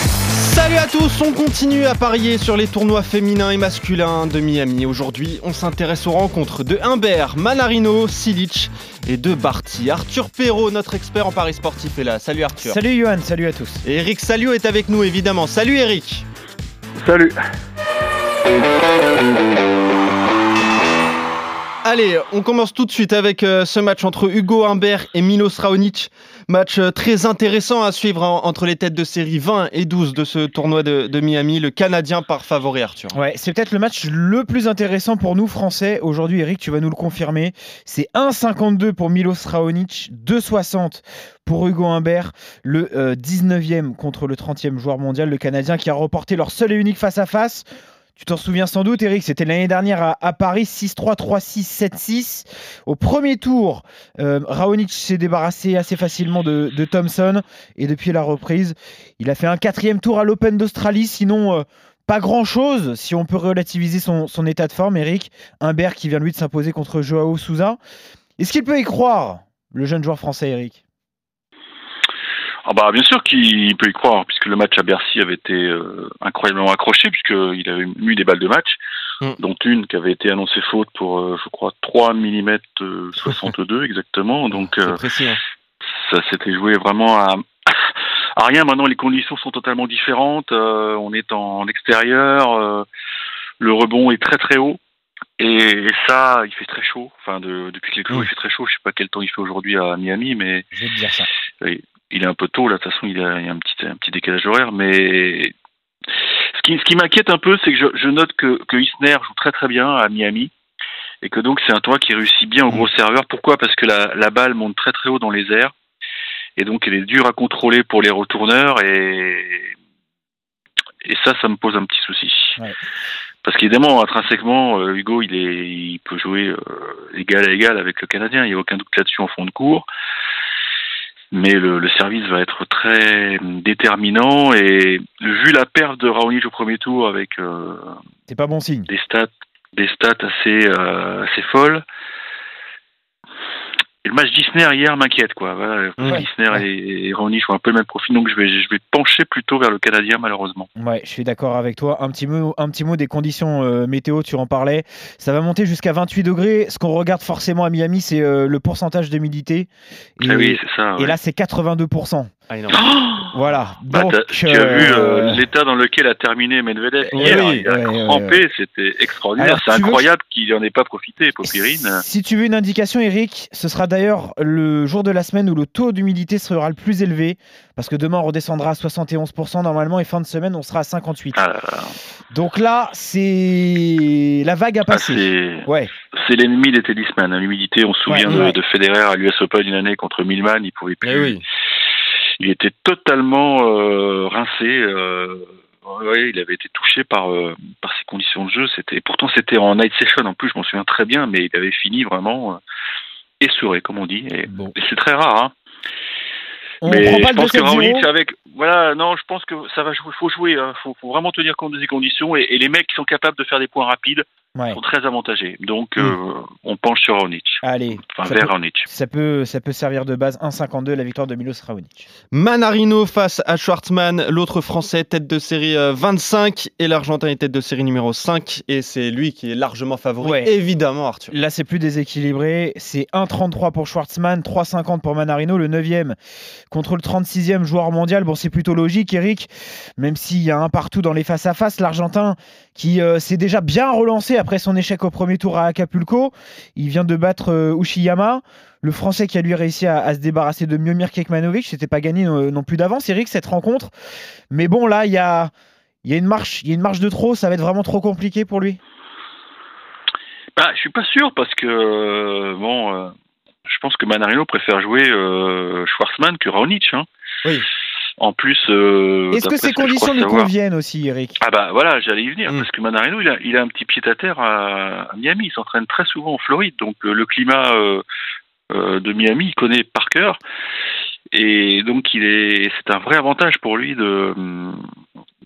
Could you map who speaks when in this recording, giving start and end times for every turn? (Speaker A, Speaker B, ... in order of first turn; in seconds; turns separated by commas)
Speaker A: 0.3-12.8, Speaker B: 12.6-13.8, Speaker A: 13.8-16.2, Speaker C: 17.0-17.4, Speaker A: 21.8-33.2, Speaker B: 33.1-47.6, Speaker B: 48.2-67.8, Speaker B: 68.4-70.8, Speaker C: 72.7-78.8, Speaker C: 79.4-85.0, Speaker A: 84.5-85.4, Speaker C: 86.0-92.8, Speaker C: 93.6-94.8, Speaker C: 95.4-100.7, Speaker B: 100.7-101.3, Speaker C: 101.6-105.5, Speaker C: 106.6-110.5, Speaker C: 111.2-115.7, Speaker C: 116.6-119.7, Speaker C: 121.0-122.6, Speaker C: 123.4-129.8, Speaker C: 131.3-138.0, Speaker B: 138.3-138.9, Speaker C: 138.9-141.8, Speaker C: 144.0-150.7, Speaker B: 146.0-146.6, Speaker B: 150.8-162.3, Speaker C: 160.2-161.2, Speaker A: 162.5-162.8, Speaker C: 162.7-172.0, Speaker B: 163.3-165.4, Speaker B: 167.1-168.4, Speaker A: 167.2-167.7, Speaker B: 169.4-170.1, Speaker B: 171.4-181.4, Speaker C: 181.3-182.0, Speaker B: 182.3-185.9, Speaker C: 184.9-191.4, Speaker B: 188.1-188.6, Speaker A: 191.0-191.4, Speaker C: 192.4-202.6, Speaker C: 203.4-205.5, Speaker B: 204.5-204.8, Speaker B: 206.8-208.1, Speaker C: 206.8-218.9, Speaker B: 214.6-214.8, Speaker B: 217.6-222.1, Speaker A: 222.3-231.3, Speaker B: 230.2-230.5, Speaker B: 231.3-236.2, Speaker B: 236.7-253.9, Speaker B: 254.5-255.5, Speaker B: 256.0-258.8, Speaker C: 260.6-263.1, Speaker C: 263.7-267.1, Speaker C: 268.2-270.5, Speaker B: 269.3-271.4, Speaker C: 271.4-278.0, Speaker C: 278.7-280.4, Speaker C: 281.3-284.8